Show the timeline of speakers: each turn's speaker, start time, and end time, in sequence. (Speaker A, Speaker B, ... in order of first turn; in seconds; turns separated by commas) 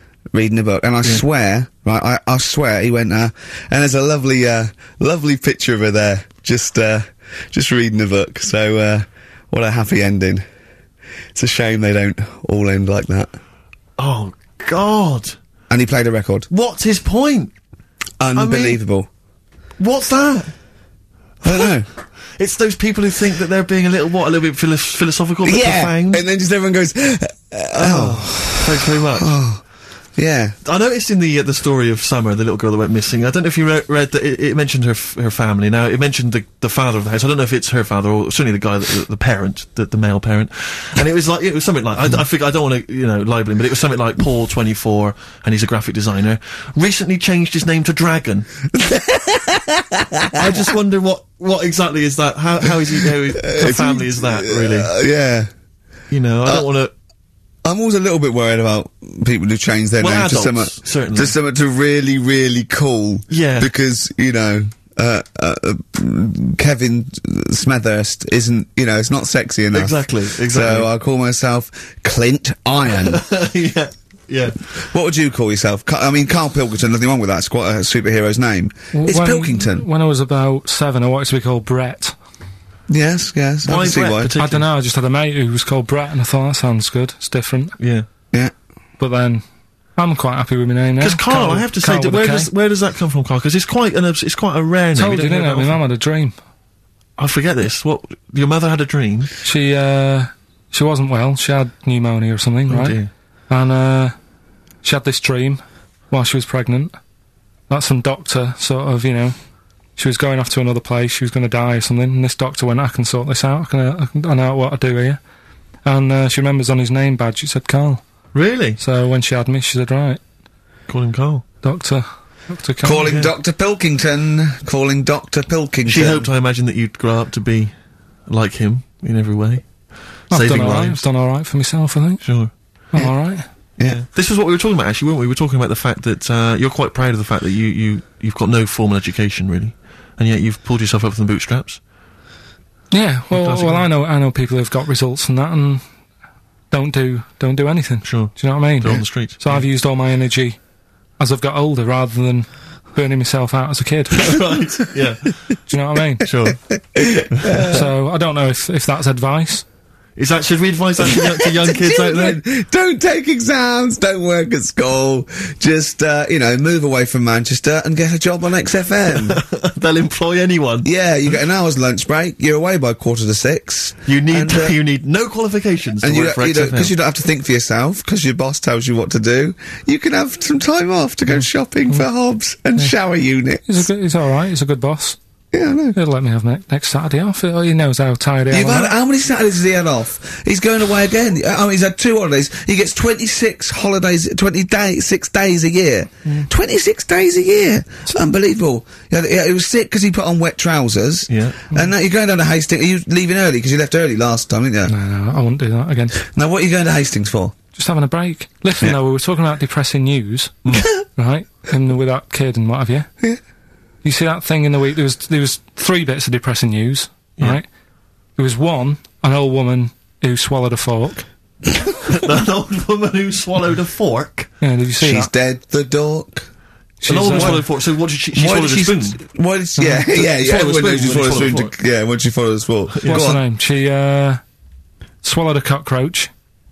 Speaker A: 0.3-10.4, Speaker A: 11.3-13.4, Speaker B: 14.0-15.4, Speaker A: 15.7-16.5, Speaker B: 16.5-17.5, Speaker A: 18.2-19.1, Speaker B: 18.4-18.8, Speaker B: 19.8-20.5, Speaker A: 21.4-21.9, Speaker B: 22.4-26.2, Speaker A: 25.4-29.6, Speaker B: 27.7-29.3, Speaker A: 30.2-30.6, Speaker B: 30.6-48.5, Speaker A: 48.7-50.6, Speaker B: 50.3-54.9, Speaker A: 53.4-55.5, Speaker B: 56.1-56.9, Speaker A: 57.6-73.2, Speaker B: 60.0-61.3, Speaker B: 63.3-63.7, Speaker B: 69.7-70.9, Speaker B: 72.9-74.6, Speaker A: 74.8-79.9, Speaker C: 78.9-82.2, Speaker A: 82.9-84.3, Speaker B: 83.7-84.7, Speaker C: 84.4-87.8, Speaker B: 87.8-88.1, Speaker C: 89.0-89.4, Speaker C: 90.0-92.5, Speaker B: 91.0-95.8, Speaker C: 95.0-96.3, Speaker B: 97.2-99.3, Speaker C: 99.4-103.0, Speaker B: 102.7-103.1, Speaker C: 103.5-104.2, Speaker C: 104.8-107.0, Speaker C: 107.7-109.4, Speaker C: 110.0-115.2, Speaker C: 115.9-118.0, Speaker B: 118.3-118.8, Speaker C: 118.8-120.2, Speaker B: 120.9-121.5, Speaker C: 121.6-123.1, Speaker A: 122.8-126.3, Speaker B: 123.0-123.3, Speaker B: 125.9-127.7, Speaker B: 128.3-129.7, Speaker B: 130.3-131.0, Speaker C: 130.3-132.2, Speaker B: 132.2-132.5, Speaker C: 132.9-133.4, Speaker B: 133.8-141.8, Speaker C: 142.9-145.8, Speaker B: 143.3-143.9, Speaker C: 146.7-150.6, Speaker B: 148.0-149.7, Speaker C: 151.2-154.5, Speaker B: 154.1-155.6, Speaker C: 155.7-156.3, Speaker B: 156.2-156.6, Speaker A: 156.8-157.9, Speaker B: 157.3-157.6, Speaker C: 157.6-159.6, Speaker B: 160.2-162.4, Speaker A: 161.0-169.4, Speaker B: 169.1-170.9, Speaker A: 170.8-174.8, Speaker B: 174.1-176.9, Speaker A: 176.0-183.8, Speaker C: 183.7-185.2, Speaker A: 185.5-186.0, Speaker C: 185.9-188.9, Speaker A: 188.5-204.9, Speaker B: 201.3-201.6, Speaker C: 204.9-206.2, Speaker A: 206.2-207.6, Speaker C: 207.8-213.1, Speaker C: 214.0-217.6, Speaker C: 218.4-221.2, Speaker B: 222.1-224.5, Speaker C: 224.6-225.3, Speaker A: 225.0-226.5, Speaker C: 227.0-227.7, Speaker B: 227.1-229.2, Speaker A: 227.3-227.6, Speaker A: 228.3-233.4, Speaker C: 229.8-230.1, Speaker B: 230.1-231.7, Speaker B: 232.9-233.3, Speaker C: 233.1-234.4, Speaker C: 235.2-236.3